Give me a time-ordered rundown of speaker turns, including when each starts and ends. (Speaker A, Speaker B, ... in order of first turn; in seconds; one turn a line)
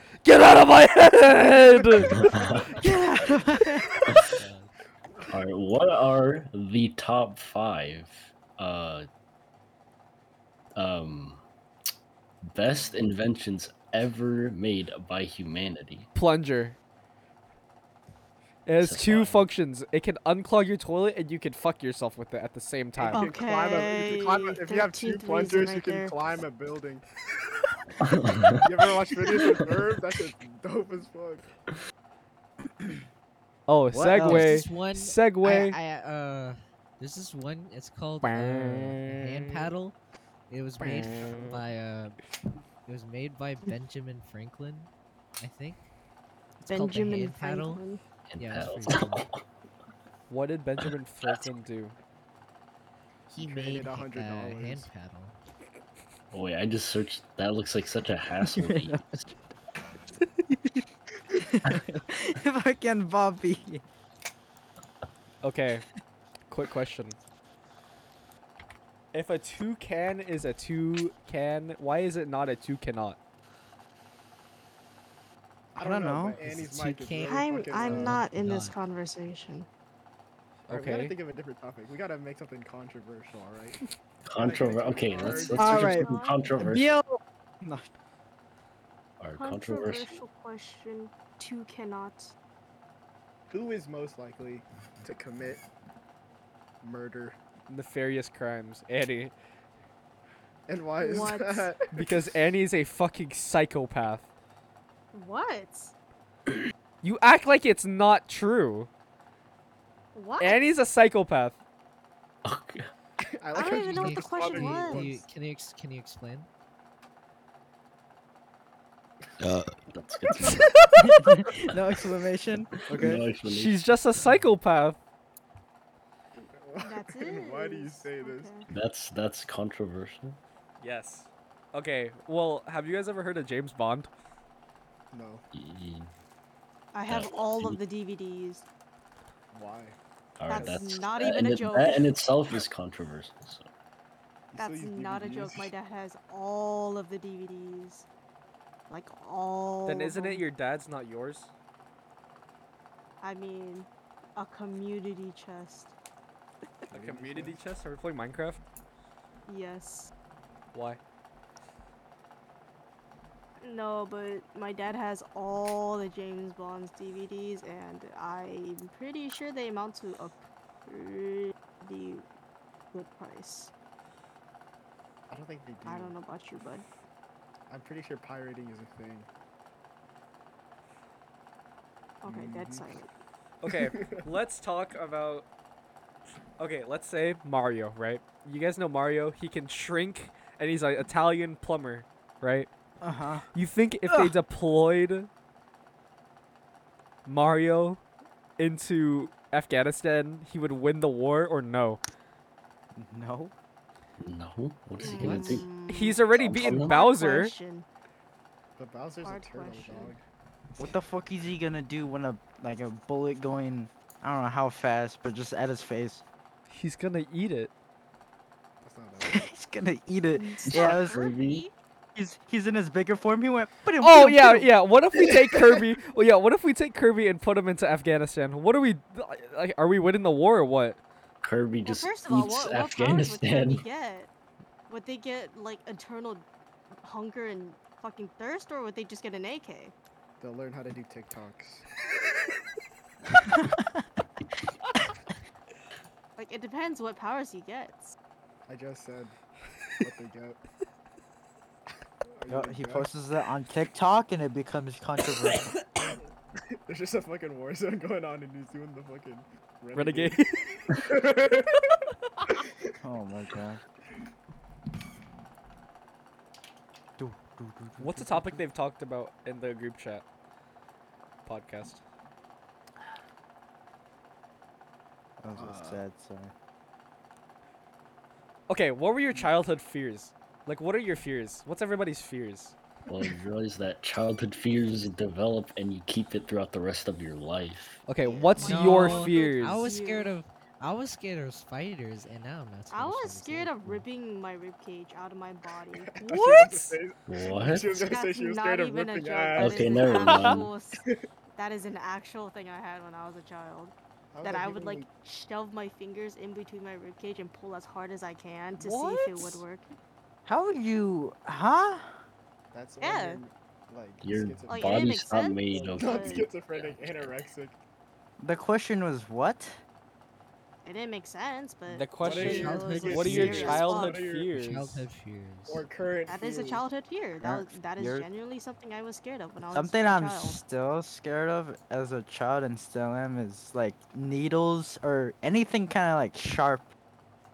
Speaker A: 0.2-2.2
Speaker B: 1.9-2.7
Speaker C: 2.0-2.9
Speaker D: 2.8-4.1
Speaker E: 4.4-4.7
Speaker C: 5.3-9.1
Speaker C: 10.8-11.5
Speaker C: 12.4-16.1
Speaker B: 12.7-13.1
Speaker A: 16.1-16.8
Speaker A: 18.6-23.2
Speaker C: 18.8-19.5
Speaker B: 23.0-27.0
Speaker F: 23.1-26.1
Speaker C: 28.0-28.6
Speaker B: 28.6-31.5
Speaker A: 33.7-35.8
Speaker D: 33.9-34.6
Speaker E: 34.1-40.0
Speaker A: 38.2-39.7
Speaker E: 40.5-42.2
Speaker A: 40.8-41.5
Speaker E: 42.9-45.9
Speaker F: 46.6-48.0
Speaker E: 46.7-47.8
Speaker C: 48.3-49.4
Speaker E: 48.4-49.2
Speaker A: 50.3-51.9
Speaker B: 53.3-54.9
Speaker E: 53.3-55.4
Speaker C: 56.3-58.9
Speaker D: 58.5-59.3
Speaker D: 61.3-63.8
Speaker A: 65.4-65.8
Speaker A: 66.5-67.2
Speaker A: 69.1-73.2
Speaker B: 75.7-78.2
Speaker D: 75.8-76.5
Speaker E: 76.4-78.7
Speaker F: 77.2-79.7
Speaker A: 80.7-81.2
Speaker B: 80.7-83.8
Speaker C: 84.2-86.9
Speaker B: 84.3-86.0
Speaker F: 85.2-86.5
Speaker D: 85.5-87.9
Speaker C: 89.2-90.2
Speaker F: 89.4-92.3
Speaker B: 93.5-95.6
Speaker B: 96.8-97.4
Speaker A: 97.7-99.3
Speaker B: 100.7-102.2
Speaker F: 101.0-101.7
Speaker A: 101.9-104.3
Speaker F: 105.1-105.9
Speaker A: 107.0-108.9
Speaker F: 110.1-110.6
Speaker A: 110.4-111.6
Speaker C: 112.4-112.9
Speaker B: 113.2-115.2
Speaker F: 113.5-115.2
Speaker E: 113.8-116.5
Speaker C: 119.4-120.9
Speaker A: 120.4-120.9
Speaker D: 120.9-123.2
Speaker C: 122.9-123.7
Speaker A: 123.0-125.0
Speaker B: 126.5-128.6
Speaker F: 126.8-128.7
Speaker C: 128.7-130.4
Speaker A: 130.8-134.1
Speaker B: 135.1-135.4
Speaker C: 135.5-136.1
Speaker F: 136.9-138.6
Speaker C: 137.1-137.8
Speaker B: 139.5-140.0
Speaker C: 140.4-143.7
Speaker F: 140.5-142.1
Speaker B: 140.5-140.8
Speaker B: 144.5-145.7
Speaker F: 144.5-148.1
Speaker F: 148.9-150.4
Speaker A: 149.8-151.5
Speaker F: 153.2-155.9
Speaker B: 156.9-157.6
Speaker A: 156.9-158.6
Speaker F: 159.5-160.1
Speaker A: 160.7-161.0
Speaker F: 163.6-172.3
Speaker F: 172.9-173.7
Speaker B: 175.3-176.1
Speaker F: 175.8-176.8
Speaker B: 177.7-179.3
Speaker F: 182.2-183.1
Speaker B: 182.2-183.0
Speaker A: 183.6-185.5
Speaker B: 183.7-184.2
Speaker A: 186.6-192.7
Speaker D: 193.0-193.4
Speaker A: 193.5-195.3
Speaker D: 194.1-194.3
Speaker A: 197.2-198.0
Speaker A: 198.6-202.0
Speaker D: 202.9-203.5
Speaker C: 204.2-205.7
Speaker F: 205.0-207.9
Speaker E: 205.1-205.6
Speaker A: 205.9-207.5
Speaker C: 206.4-207.0
Speaker B: 208.8-210.2
Speaker F: 209.2-210.2
Speaker D: 210.8-216.2
Speaker A: 216.7-217.7
Speaker B: 218.8-219.4
Speaker D: 219.2-221.2
Speaker F: 220.3-221.7
Speaker C: 220.7-221.6
Speaker D: 222.1-224.7
Speaker A: 224.0-231.0
Speaker C: 231.4-233.8
Speaker F: 231.8-234.3
Speaker F: 234.9-236.4
Speaker F: 237.0-239.9
Speaker B: 240.4-241.8
Speaker D: 243.3-244.2
Speaker F: 246.4-248.2
Speaker B: 248.7-249.3
Speaker B: 250.0-250.6
Speaker B: 252.3-253.1
Speaker D: 252.5-255.8
Speaker B: 256.9-261.9
Speaker A: 259.9-260.5
Speaker B: 262.5-262.9
Speaker D: 263.0-263.8
Speaker D: 267.2-268.6
Speaker A: 268.0-270.2
Speaker A: 271.4-272.0
Speaker D: 275.4-276.5
Speaker B: 275.5-276.0
Speaker A: 278.7-282.8
Speaker C: 283.1-288.0
Speaker A: 288.1-289.9
Speaker B: 288.2-288.9
Speaker F: 288.6-290.3
Speaker E: 288.6-294.0
Speaker F: 292.9-296.2
Speaker B: 296.0-300.1
Speaker A: 296.3-296.9
Speaker C: 297.3-298.0
Speaker F: 297.9-301.0
Speaker C: 299.6-300.7
Speaker A: 300.1-300.6
Speaker F: 301.5-309.9
Speaker B: 304.3-305.1
Speaker A: 308.8-309.6
Speaker D: 310.4-312.2
Speaker B: 312.7-317.8
Speaker F: 313.0-313.4
Speaker C: 314.2-316.9
Speaker F: 314.7-316.5
Speaker D: 318.4-319.8
Speaker F: 320.8-324.2
Speaker A: 321.9-325.1
Speaker B: 322.2-324.5
Speaker E: 322.4-325.8
Speaker D: 322.5-323.6
Speaker B: 325.7-326.8
Speaker F: 326.3-330.6
Speaker D: 327.4-328.3
Speaker D: 329.7-336.9